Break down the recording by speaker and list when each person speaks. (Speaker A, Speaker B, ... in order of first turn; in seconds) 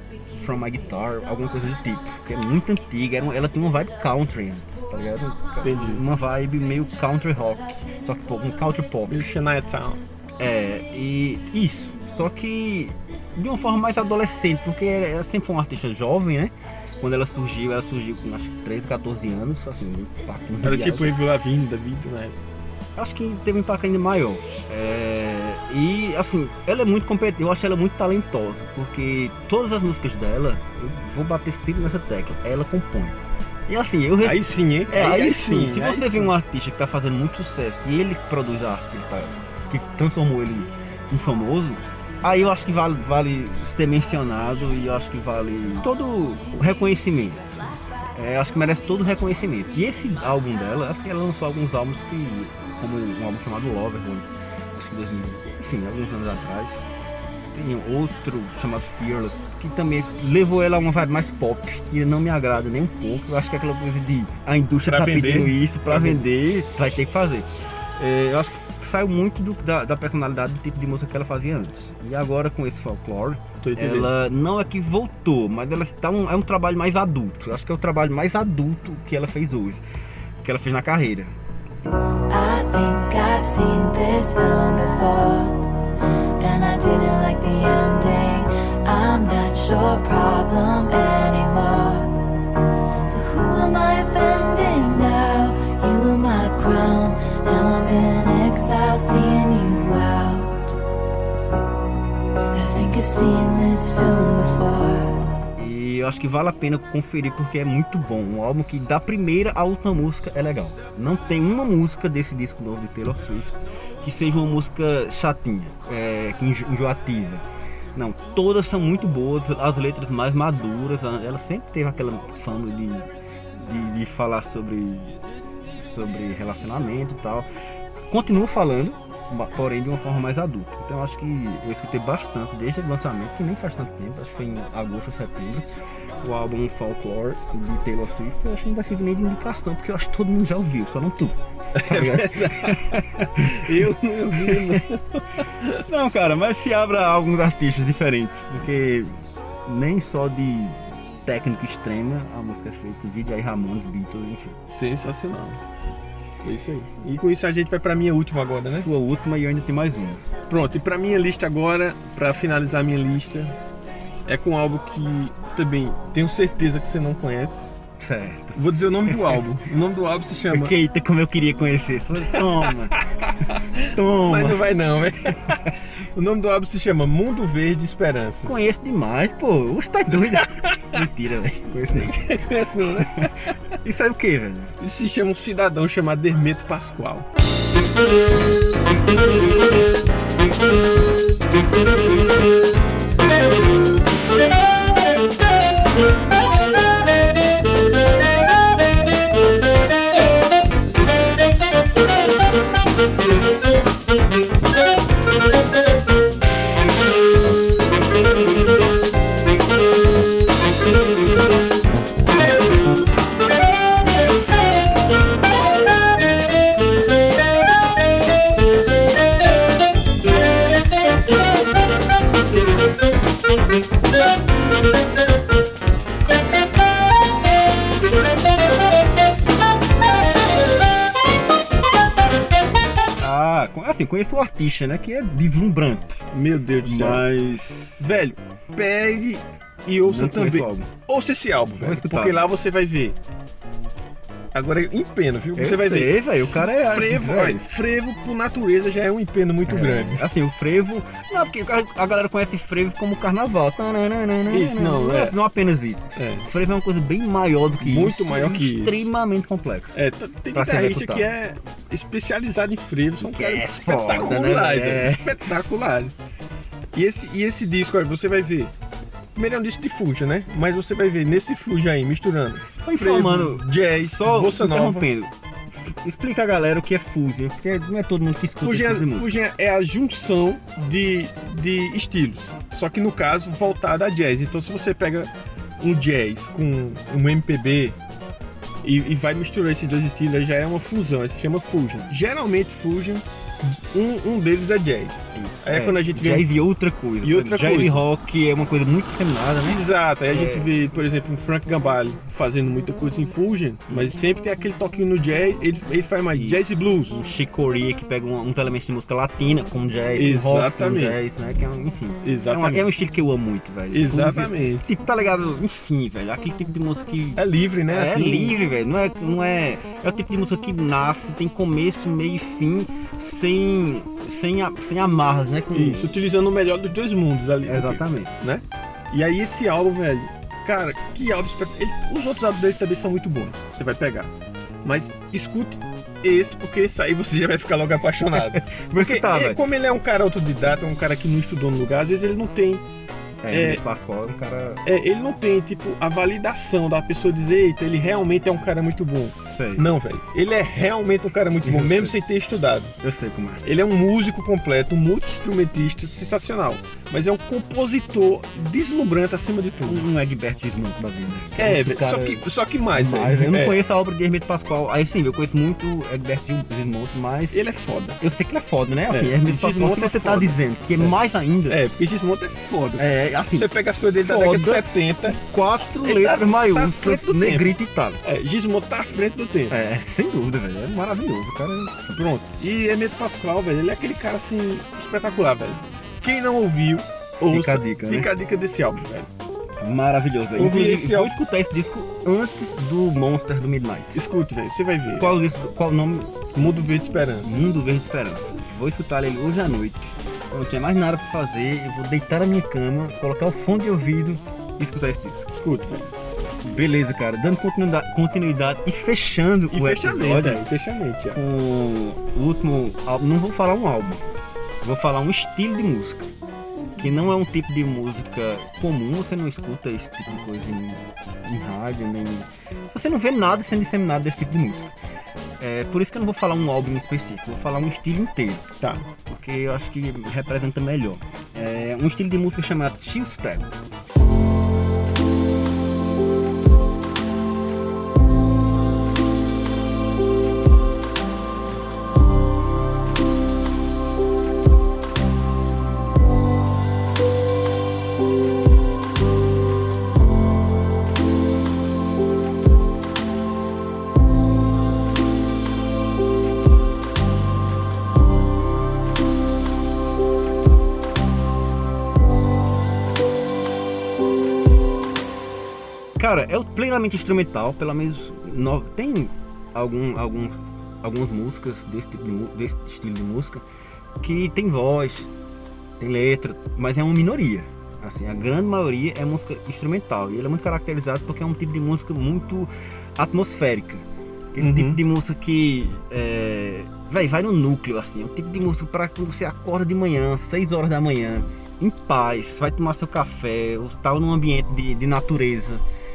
Speaker A: 0.3-9.3, 10.4-21.2, 23.0-56.9, 57.5-79.8, 80.4-81.3, 105.6-125.2, 125.8-127.5, 128.1-135.7, 136.2-144.8, 145.8-154.6, 158.7-160.3, 168.0-169.4, 170.5-173.0, 173.9-174.8, 178.4-182.4, 183.0-184.8, 233.2-236.3, 236.8-238.1, 240.0-240.9, 241.7-242.5, 245.6-247.7, 249.7-260.0, 260.5-261.3, 263.2-265.4, 272.8-279.3, 295.3-300.7, 306.3-326.2, 327.7-328.4, 338.4-339.6, 343.4-344.8, 349.5-349.9, 351.6-352.2, 353.0-353.6, 359.9-367.6, 368.2-371.8, 373.0-378.2, 379.7-382.2, 387.4-388.3, 389.8-394.2, 395.2-396.4, 397.4-405.5, 406.6-410.6, 411.3-414.2, 414.8-416.3, 417.0-424.9, 425.6-428.7, 429.3-433.7, 466.2-473.6, 474.2-475.3, 476.0-495.8
Speaker B: 5.6-6.0, 9.1-10.0, 20.6-22.4, 34.2-36.3, 64.8-66.2, 73.6-74.1, 141.8-145.8, 154.7-155.6, 156.4-158.9, 160.5-163.6, 164.3-167.8, 168.5-170.8, 172.3-172.7, 173.2-178.6, 180.4-181.0, 181.9-183.6, 184.8-187.3, 236.3-237.3, 238.0-243.2, 244.5-250.3, 254.5-255.4, 256.2-256.5, 257.8-259.1, 259.9-266.1, 266.9-268.7, 269.4-275.1, 278.6-288.0, 288.8-296.6, 297.2-298.0, 299.6-307.2, 310.2-311.2, 312.2-312.9, 313.9-314.9, 317.4-318.6, 325.7-334.3, 334.8-342.8, 343.5-343.8, 344.9-352.9, 353.6-360.0, 361.6-363.8, 367.5-368.2, 369.1-371.2, 371.7-375.4, 376.0-377.7, 378.2-379.8, 382.1-389.3, 390.6-391.3, 394.1-395.4, 396.6-397.5, 405.5-406.1, 409.7-411.4, 484.6-485.0
Speaker C: 82.3-85.6, 86.4-92.2, 93.1-100.8, 102.5-105.2